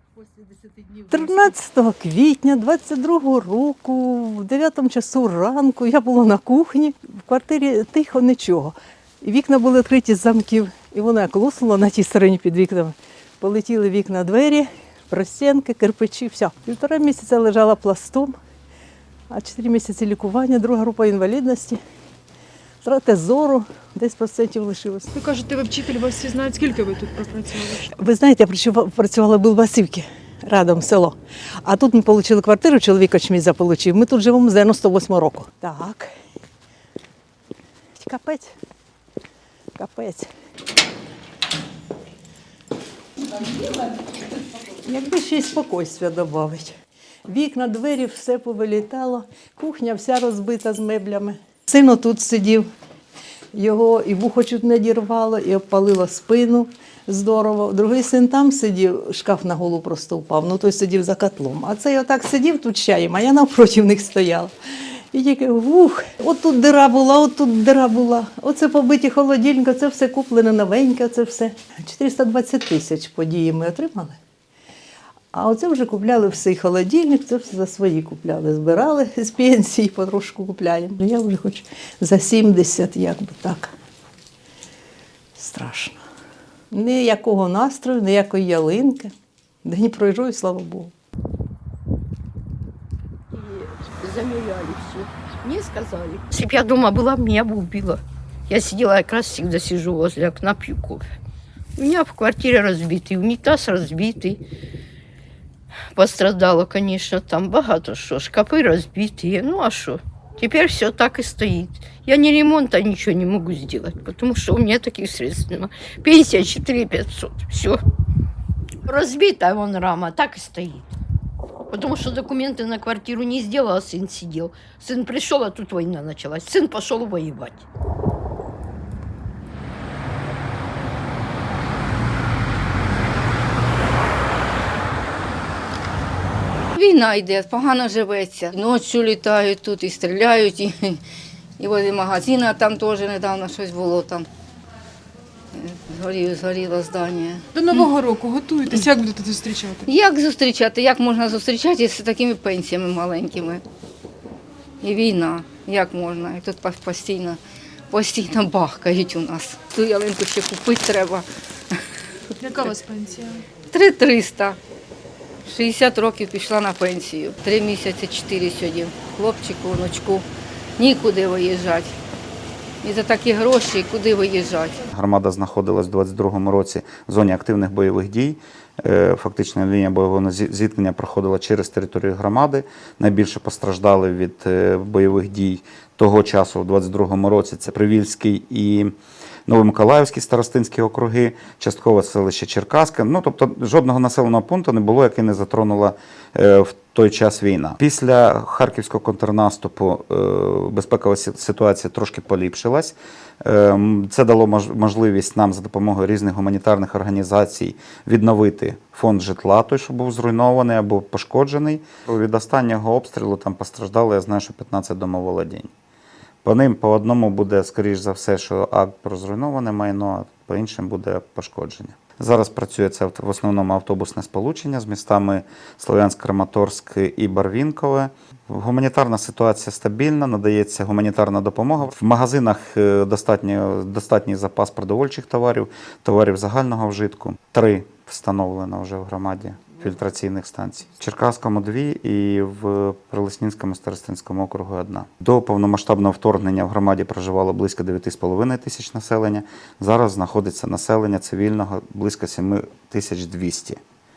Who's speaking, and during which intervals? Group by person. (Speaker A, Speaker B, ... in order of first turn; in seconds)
Speaker A: 0.4-18.4, 19.3-21.8, 22.8-25.1, 27.8-36.1, 38.0-38.5, 39.7-40.3, 44.8-46.7, 47.3-52.7, 53.5-64.5, 65.1-74.2, 75.3-83.7, 85.3-86.0, 86.7-89.1, 89.6-90.9
Speaker B: 25.1-27.8, 147.5-149.9, 162.4-163.4
Speaker C: 93.3-101.1, 101.8-104.4, 105.9-117.8, 118.8-120.9, 121.7-127.6
Speaker D: 136.7-141.0, 141.6-144.3, 145.5-147.8, 149.8-153.6, 154.8-161.8, 163.7-164.6, 165.4-170.3, 170.8-171.9, 172.8-174.8
Speaker E: 174.9-188.9, 189.5-215.7, 216.4-253.8